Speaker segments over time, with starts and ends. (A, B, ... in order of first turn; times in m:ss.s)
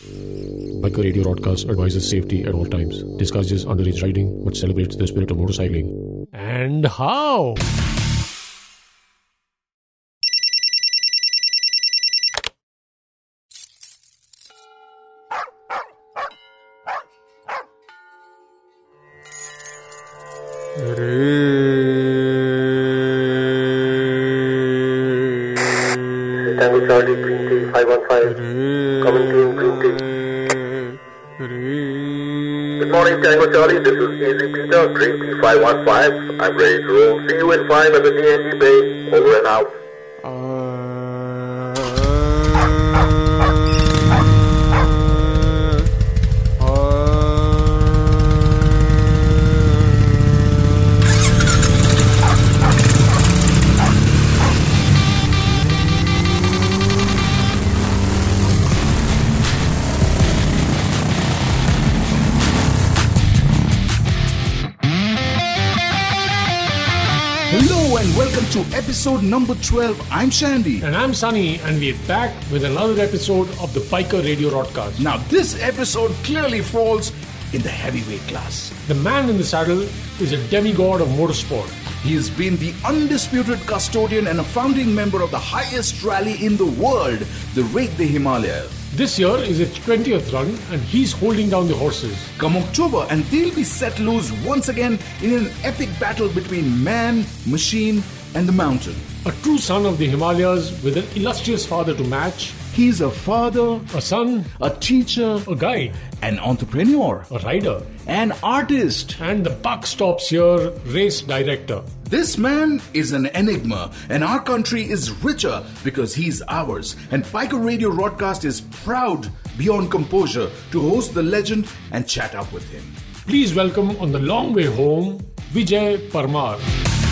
0:00.7-0:07.7 A
0:26.4-0:28.4 B
0:29.0-0:30.1 B
0:32.8-0:39.7 B
1:07.5-1:10.9 C
1:10.8-1:15.0 A
1:15.0-1:18.7 C
1:18.8-1:21.8 A
1:22.0-1:28.7 C
1:28.9-1:32.3 A
1:32.4-1:39.0 C
1:39.2-1:42.6 A
1:42.7-1:43.9 C
1:43.9-1:44.6 A
1:44.6-1:45.4 C
1:45.3-1:46.0 A
1:46.1-1:47.3 C
1:47.3-1:47.9 A
1:48.0-1:49.2 C
1:49.2-1:51.9 A
1:52.0-2:03.0 C
2:03.3-2:06.7 A